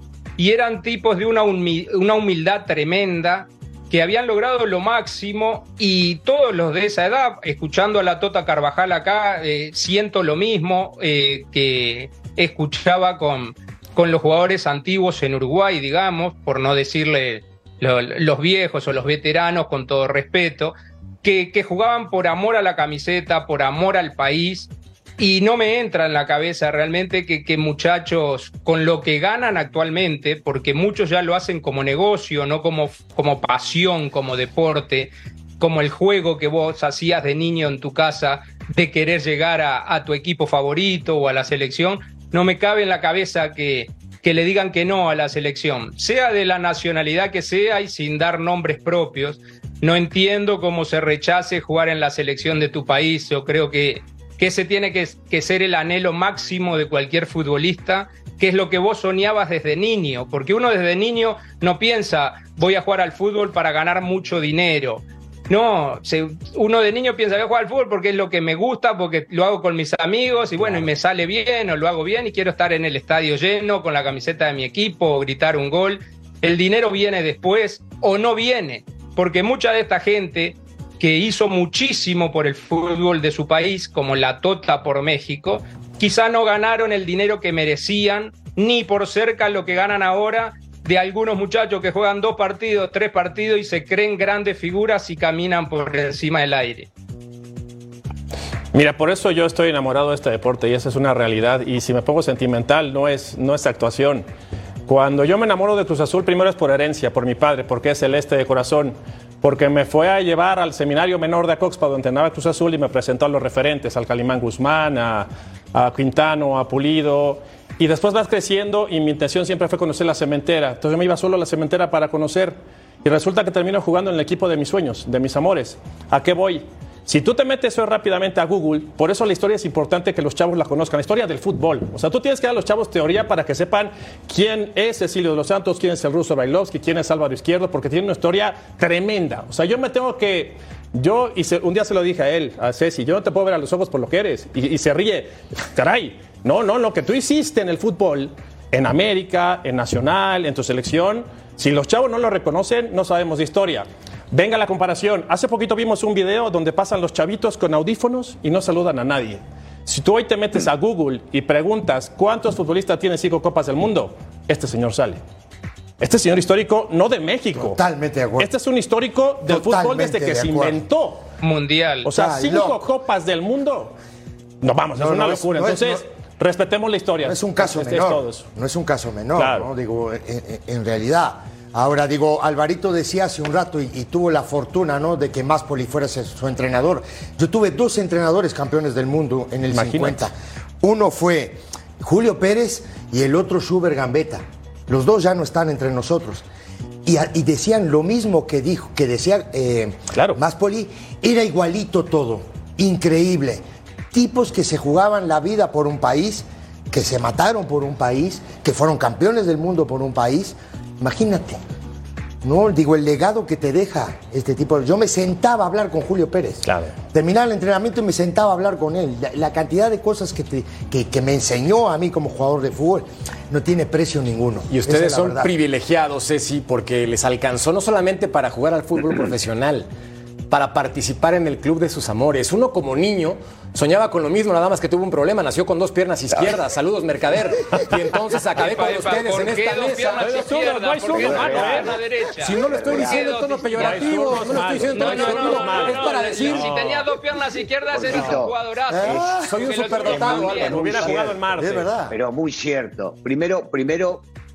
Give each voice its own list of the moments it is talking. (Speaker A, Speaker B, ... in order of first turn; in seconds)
Speaker A: 0.4-96.9, 171.4-172.1, 238.6-250.8
Speaker B: 98.7-104.3, 104.9-165.2, 166.0-167.8, 168.4-171.2, 172.0-173.9, 174.6-178.4, 179.4-179.7, 189.7-190.3, 216.6-216.9, 240.2-242.0, 243.7-247.0, 250.2-251.9
Speaker C: 167.6-168.5, 169.5-170.8, 172.1-172.8, 175.0-176.0, 177.2-196.4, 197.1-211.6, 212.4-225.5, 248.9-249.5, 250.1-252.2
Speaker D: 224.7-229.9, 230.5-240.3, 241.2-241.7, 242.4-246.9, 249.4-251.1
Speaker E: 241.3-241.8, 242.7-243.2, 247.9-249.3, 250.1-251.3, 252.1-254.3